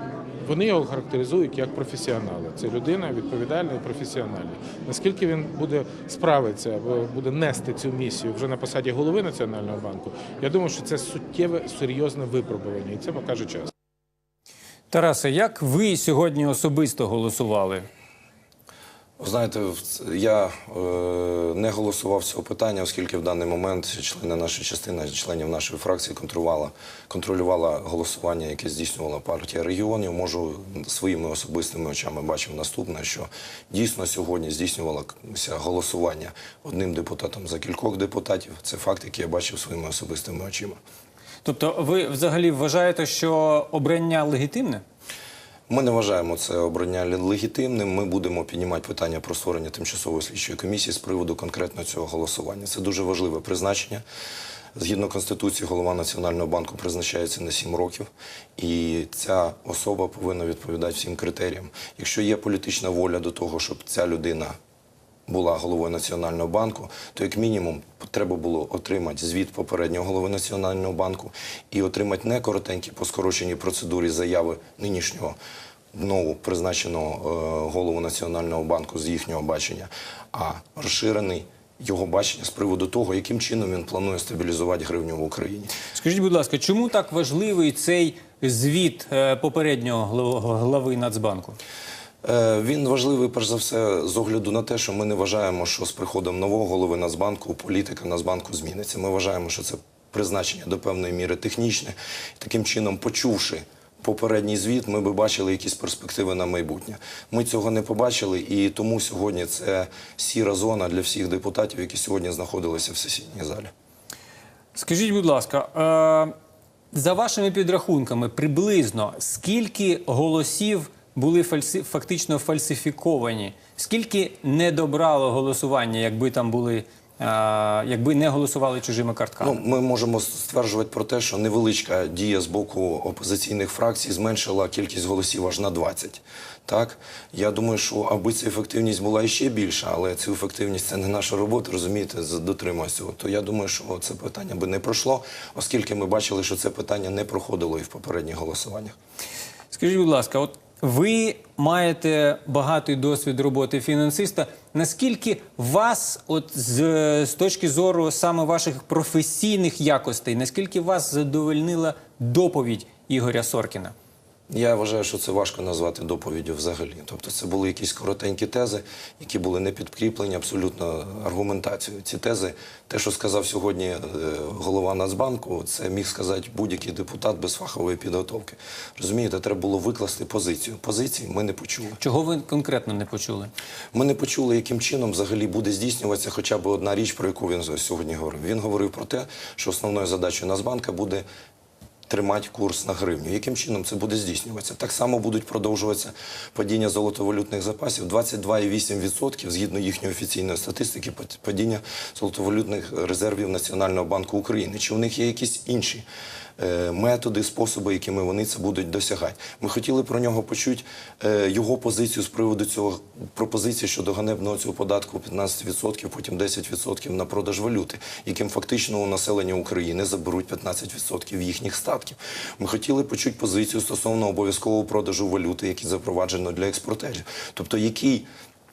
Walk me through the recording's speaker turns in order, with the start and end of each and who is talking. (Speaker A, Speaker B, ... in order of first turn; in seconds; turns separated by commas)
Speaker A: 0.4-13.7, Speaker B: 14.9-17.9, Speaker C: 19.2-40.8, Speaker B: 41.4-44.8, Speaker C: 45.7-54.0, Speaker C: 54.7-64.6, Speaker C: 65.3-75.4, Speaker C: 75.9-85.7, Speaker B: 85.9-91.6, Speaker C: 92.2-113.7, Speaker B: 114.7-116.3, Speaker B: 116.9-129.5, Speaker C: 129.4-148.9, Speaker B: 149.7-163.9, Speaker C: 164.5-182.0, Speaker B: 182.0-183.5, Speaker C: 183.9-191.2, Speaker C: 192.1-206.1, Speaker C: 206.6-228.3